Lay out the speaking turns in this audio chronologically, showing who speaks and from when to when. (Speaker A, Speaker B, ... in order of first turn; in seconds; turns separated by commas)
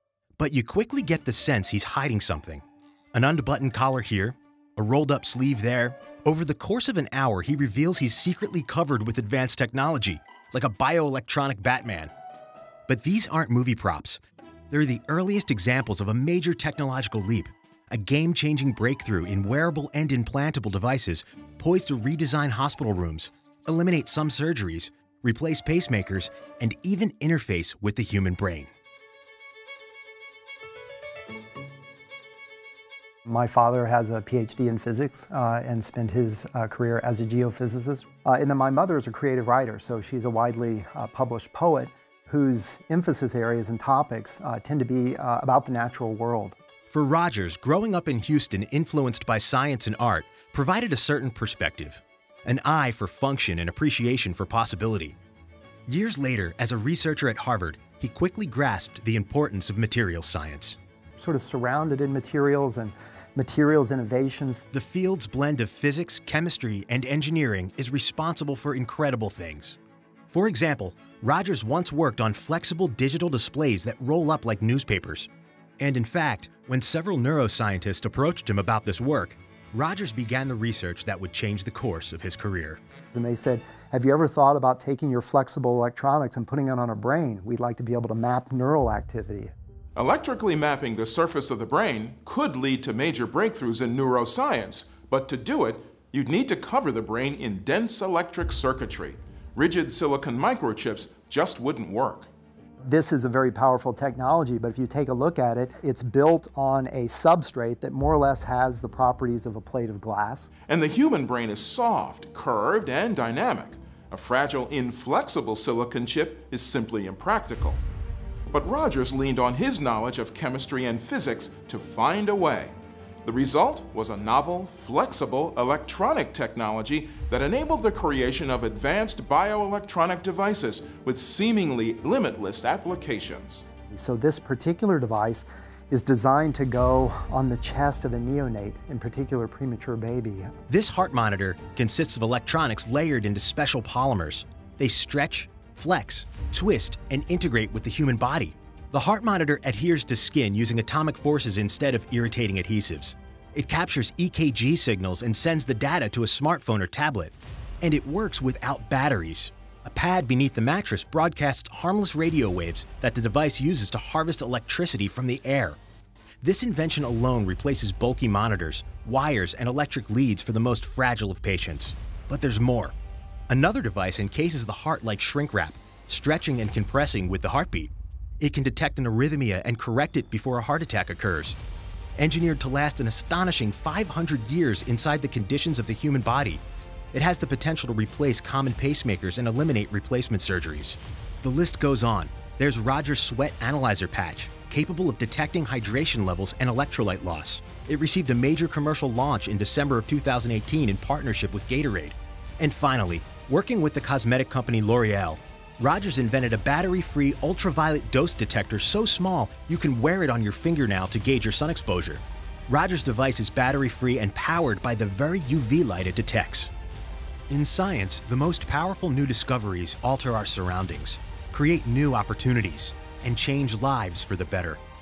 Speaker A: 0.4-12.1, Speaker A: 12.9-28.7, Speaker B: 33.3-46.6, Speaker A: 46.9-55.2, Speaker A: 55.9-60.8, Speaker B: 61.2-64.7, Speaker A: 64.7-69.8, Speaker A: 70.3-82.8, Speaker B: 83.1-89.5, Speaker C: 90.0-102.3, Speaker B: 102.8-110.5, Speaker C: 110.7-117.8, Speaker C: 118.5-133.7, Speaker B: 133.9-140.5, Speaker A: 140.7-165.8, Speaker A: 166.4-172.9, Speaker A: 173.5-181.6, Speaker A: 182.2-216.7, Speaker A: 217.5-224.8